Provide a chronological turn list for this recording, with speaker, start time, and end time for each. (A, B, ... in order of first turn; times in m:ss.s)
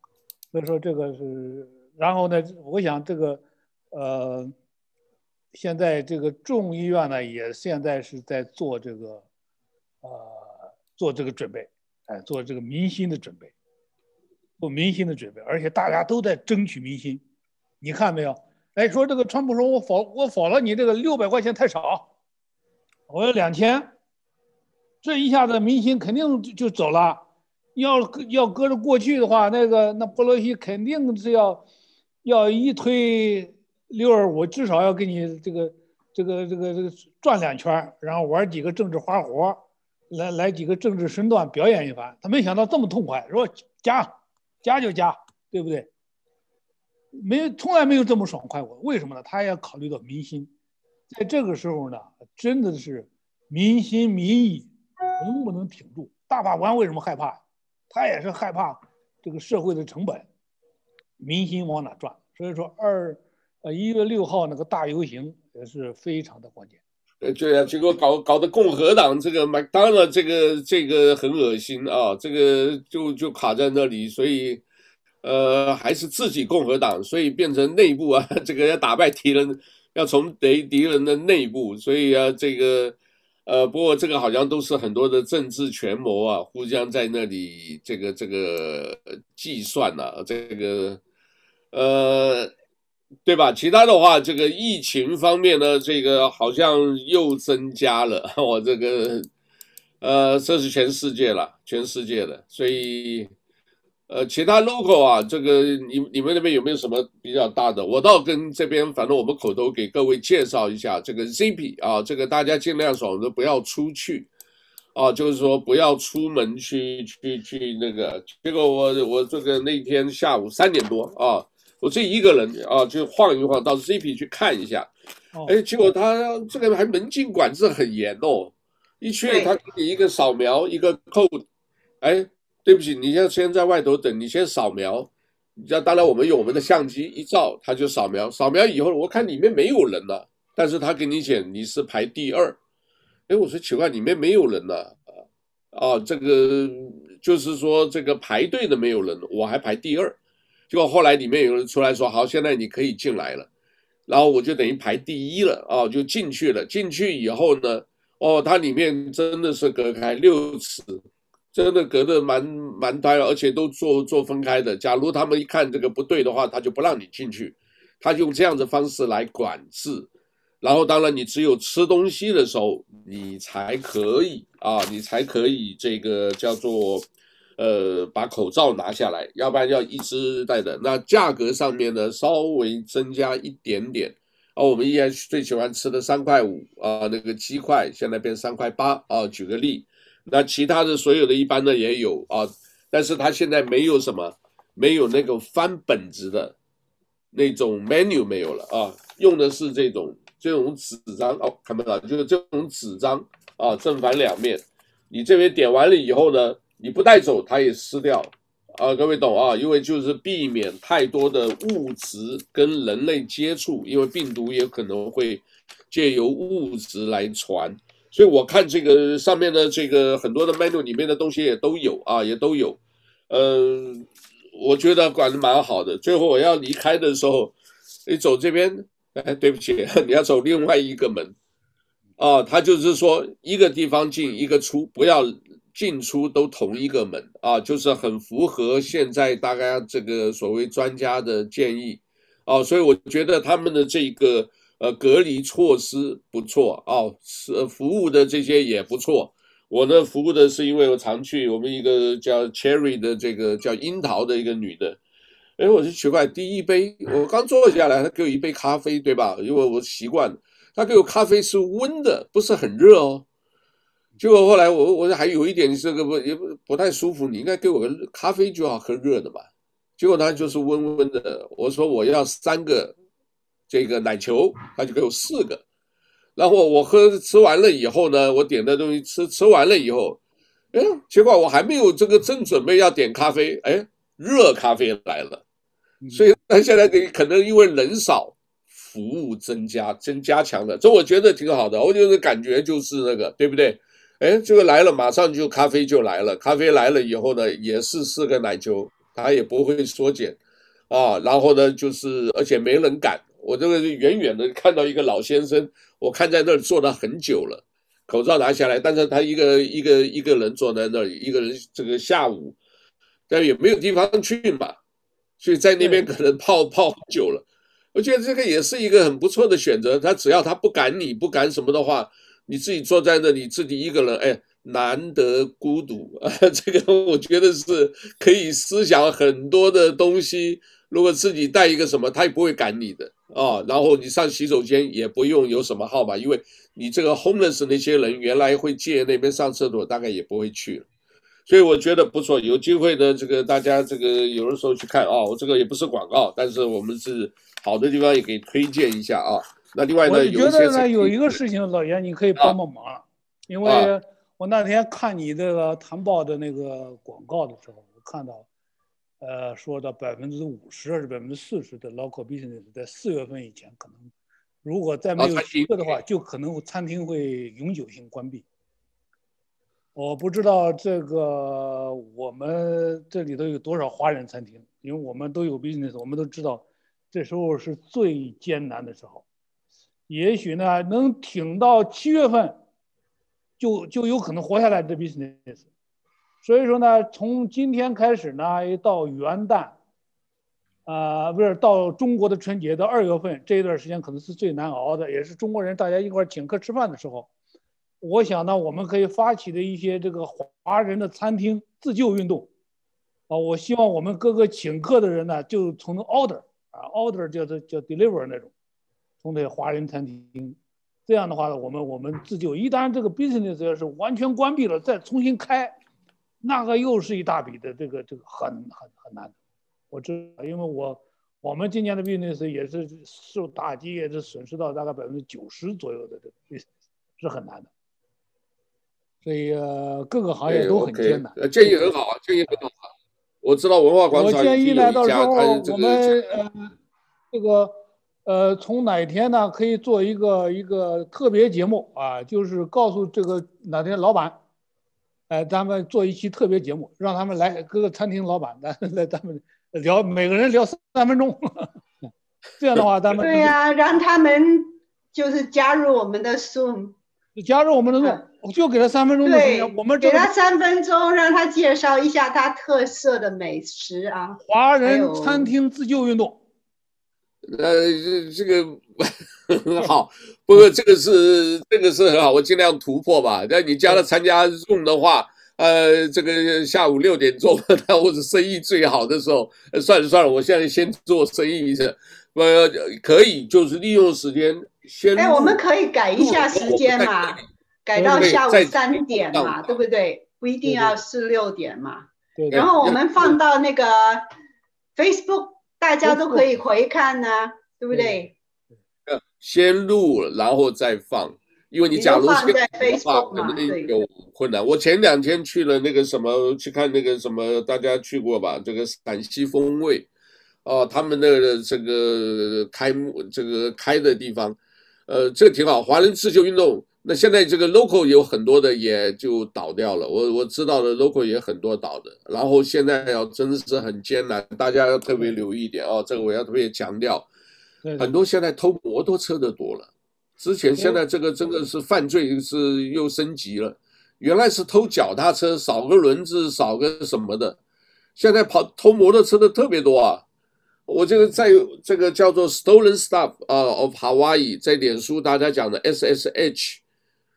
0:00.5-0:04.5 A
0:05.5-0:09.2 A
0:10.0-0:13.5 A
0:14.6-0:17.2 A
0:17.8-0:22.1 A
0:23.1-0:23.9 A
0:25.0-0:27.2 A
0:27.8-0:31.6 A
0:32.2-0:39.6 A
0:40.1-0:45.9 A
0:47.2-0:50.5 A
0:51.1-0:57.4 A
0:57.9-1:00.3 A
1:01.2-1:06.8 A
1:07.2-1:14.6 B
1:15.2-1:31.0 B
1:31.7-1:32.5 B
1:33.3-1:39.3 B
1:40.0-1:43.3 B
1:44.1-1:54.3 B
1:55.0-2:04.9 B
2:05.5-2:11.4 B
2:09.3-2:09.5 C
2:12.0-2:22.6 B
2:23.3-2:25.1 B
2:25.7-2:30.2 B
2:30.7-2:33.5 B
2:34.1-2:41.0 B
2:41.5-2:50.1 B
2:50.6-3:16.6 B
3:17.3-3:47.6 B
3:48.1-3:51.4 B
3:52.2-4:15.0 B
4:15.6-4:23.2 B
4:24.2-4:29.4 B
4:30.0-4:33.0 B
4:33.7-4:35.6 B
4:36.4-4:40.2 B
4:40.7-4:45.4 B
4:46.0-4:46.3 A
4:46.1-5:00.4 B
5:00.9-5:12.6 B
5:13.3-5:14.8 B
5:15.4-5:17.4 B
5:18.0-5:40.9 B
5:41.5-5:51.4 B
5:50.0-5:58.5 A
5:53.6-5:53.9 B
5:59.2-6:04.1 A
6:04.6-6:08.4 A
6:05.2-6:06.0 B
6:10.0-6:19.2 A
6:20.1-6:22.6 A
6:23.6-6:25.7 A
6:26.4-6:29.8 A
6:30.9-6:37.3 A
6:38.0-6:42.5 A
6:43.3-6:48.5 A
6:49.2-6:55.8 A
6:56.4-6:59.3 A
6:59.9-7:06.7 A
7:07.2-7:07.7 A
7:09.2-7:11.8 A
7:10.5-7:12.9 B
7:13.4-7:16.2 B
7:14.1-7:16.8 A
7:17.3-7:24.4 A
7:25.3-7:31.7 A
7:32.6-7:33.6 A
7:33.2-7:37.0 C
7:37.4-7:40.3 A
7:39.2-7:45.5 C
7:44.4-7:46.4 A
7:47.4-8:05.6 B
8:05.2-8:14.3 C
8:06.2-8:07.4 B
8:08.0-8:08.4 A
8:08.1-8:09.6 B
8:10.6-8:11.0 A
8:12.4-8:12.7 A
8:12.5-8:13.0 B
8:15.0-8:18.3 C
8:16.0-8:16.4 A
8:17.9-8:18.3 A
8:19.1-8:30.1 B
8:21.9-8:24.0 C
8:30.6-8:47.3 B
8:47.8-8:48.1 A
8:48.0-8:57.6 B
8:58.2-9:00.2 B
9:00.9-9:06.8 B